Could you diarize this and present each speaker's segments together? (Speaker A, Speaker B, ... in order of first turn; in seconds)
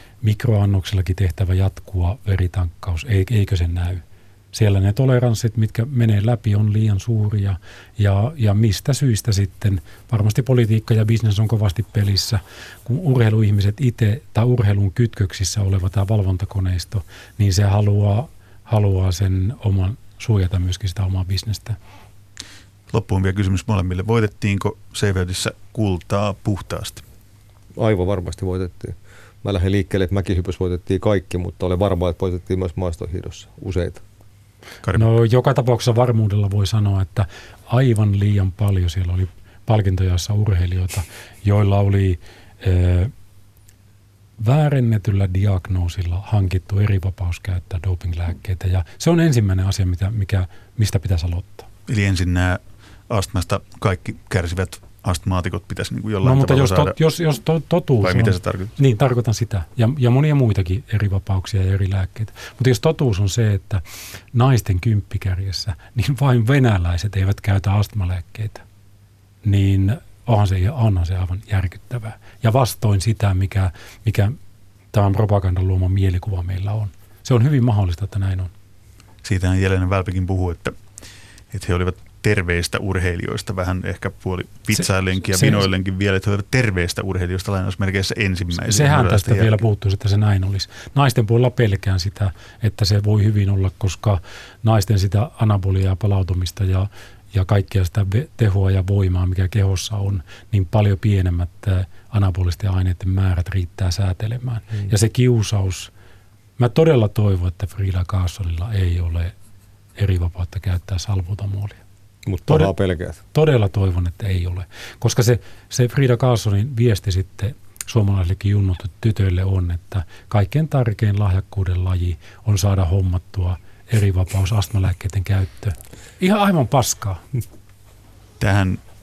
Speaker A: 0.2-21.8, 34.9-43.1, 44.4-51.7, 56.2-68.6, 69.4-74.4, 74.9-78.5, 84.8-85.7, 88.6-105.9, 106.6-109.3, 110.0-111.8, 112.5-112.7, 113.3-127.2
Speaker B: 22.9-27.0, 34.8-35.1, 51.9-57.0, 58.0-58.7, 79.2-80.8, 81.5-89.6, 128.4-128.8
Speaker C: 27.8-34.0, 112.2-113.2